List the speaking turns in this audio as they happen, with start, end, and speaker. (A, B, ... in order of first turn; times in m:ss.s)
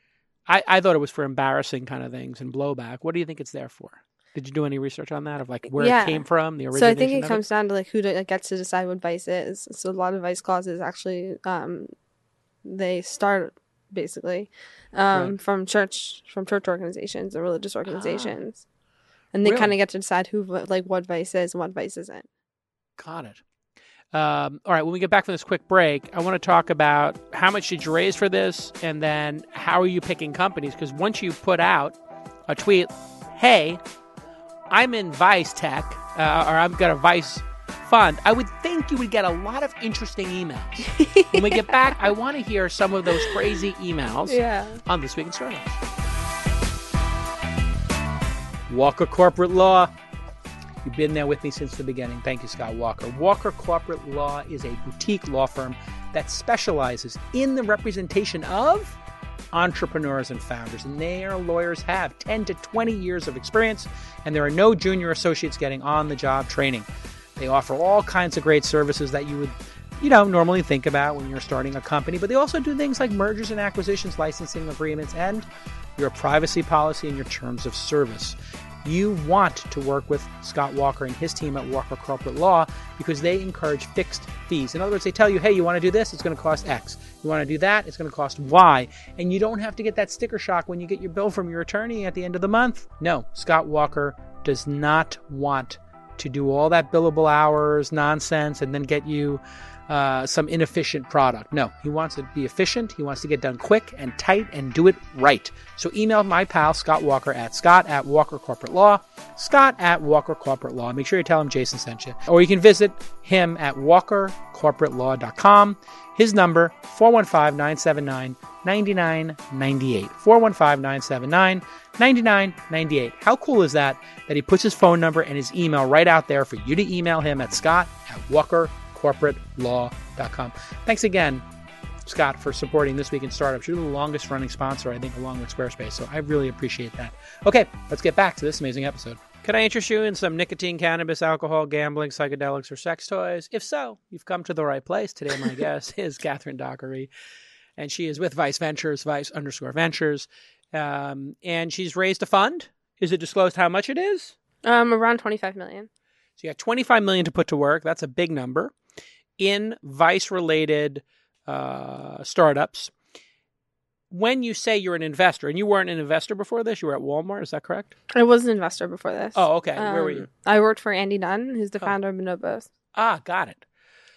0:00.5-0:07.4 A
0:05.7-0:11.9 B
0:12.6-0:18.6 B
0:17.9-0:18.4 A
0:19.3-0:22.3 B
0:19.4-0:19.7 A
0:23.0-0:23.4 A
0:24.1-0:32.0 A
0:32.5-0:33.8 A
0:34.7-0:45.7 A
0:40.8-0:42.0 B
0:44.2-0:44.8 B
0:48.7-0:49.9 A
0:50.8-0:59.0 A
0:59.5-1:06.8 A
1:07.4-1:15.4 A
1:16.0-2:11.4 A
2:12.0-2:27.1 A
2:27.8-2:34.3 A
2:34.6-2:35.9 B
2:36.4-2:38.7 A
2:39.4-2:42.9 A
2:44.1-2:47.9 A
2:48.1-2:52.7 B
2:49.3-2:50.3 A
2:52.9-2:53.6 A